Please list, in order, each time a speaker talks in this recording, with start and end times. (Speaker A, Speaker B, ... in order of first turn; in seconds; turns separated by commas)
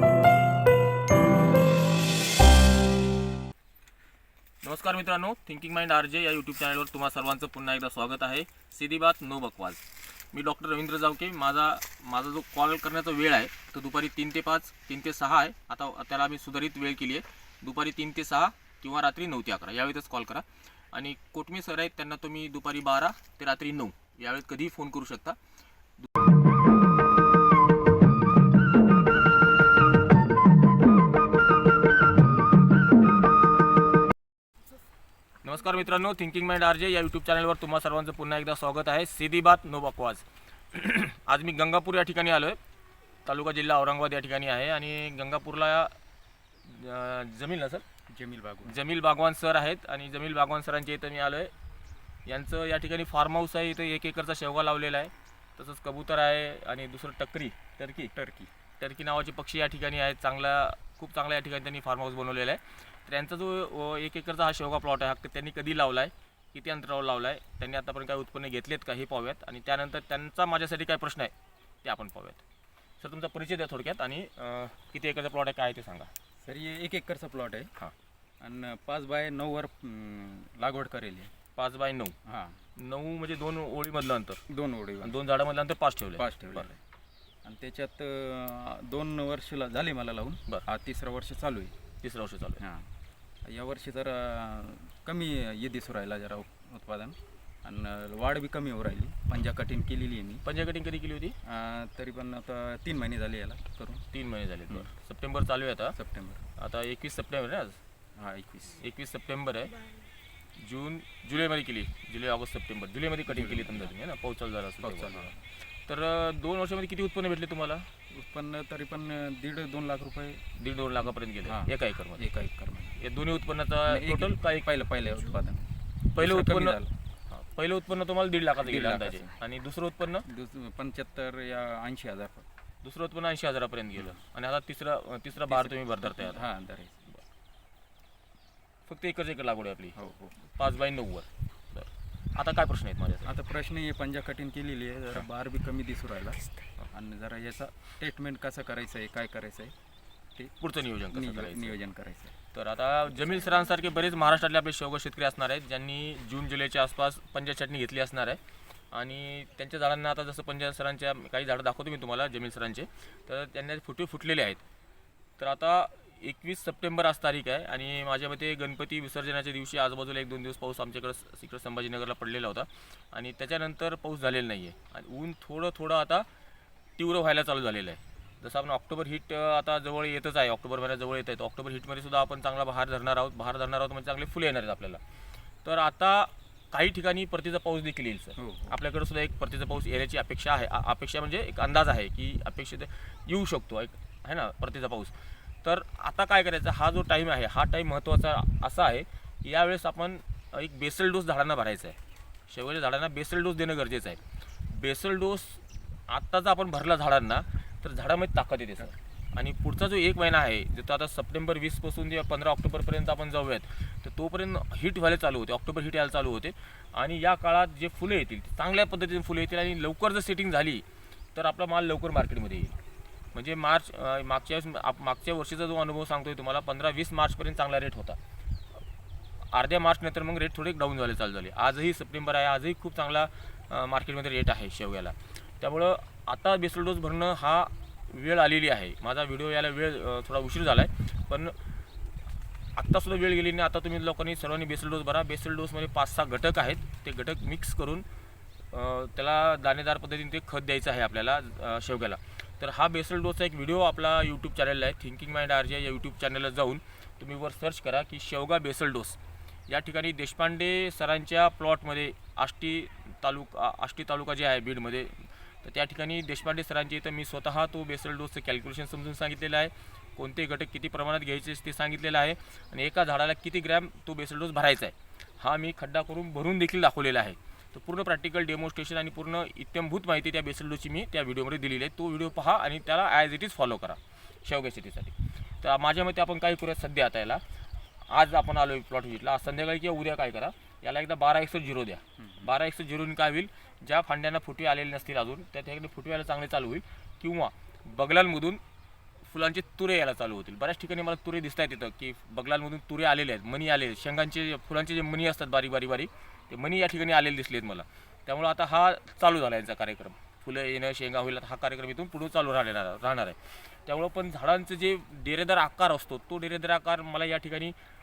Speaker A: 4.6-25.4, Speaker A: 35.4-42.6, Speaker A: 43.2-45.9, Speaker A: 46.6-47.8, Speaker B: 48.1-48.8, Speaker A: 48.6-51.5, Speaker A: 52.3-58.1, Speaker B: 58.1-58.5, Speaker A: 58.8-71.3, Speaker A: 71.8-72.4, Speaker A: 73.0-76.1, Speaker B: 76.4-77.7, Speaker B: 78.4-81.3, Speaker A: 81.6-82.2, Speaker B: 82.3-82.6, Speaker A: 82.8-84.4, Speaker B: 84.5-85.2, Speaker A: 85.0-86.7, Speaker B: 86.2-86.8, Speaker B: 87.4-91.7, Speaker A: 92.0-92.6, Speaker B: 92.6-92.9, Speaker B: 93.5-100.5, Speaker A: 100.4-101.4, Speaker B: 101.5-104.0, Speaker A: 104.1-106.0, Speaker B: 106.0-106.4, Speaker A: 106.6-107.8, Speaker B: 108.2-108.8, Speaker A: 108.8-109.8, Speaker A: 110.6-115.3, Speaker B: 113.3-114.0, Speaker B: 114.8-115.4, Speaker A: 115.9-117.9, Speaker B: 118.1-120.4, Speaker A: 120.6-122.3, Speaker B: 121.4-123.0, Speaker A: 123.0-124.7, Speaker B: 123.9-126.9, Speaker A: 126.1-126.8, Speaker A: 127.3-130.3, Speaker B: 128.6-129.4, Speaker B: 130.2-132.5, Speaker A: 132.8-136.5, Speaker B: 135.5-137.1, Speaker A: 138.9-143.3, Speaker B: 139.9-140.3, Speaker B: 143.2-149.7, Speaker A: 150.6-151.8, Speaker B: 151.1-152.3, Speaker A: 152.5-158.4, Speaker A: 158.9-164.6, Speaker A: 165.4-176.3, Speaker A: 177.0-185.0, Speaker A: 185.6-202.0, Speaker B: 188.4-188.8, Speaker A: 202.5-222.8, Speaker A: 223.3-228.2, Speaker A: 229.5-241.6, Speaker A: 242.8-248.1, Speaker A: 248.7-287.4, Speaker A: 288.1-298.6, Speaker B: 292.2-292.5, Speaker A: 299.3-317.8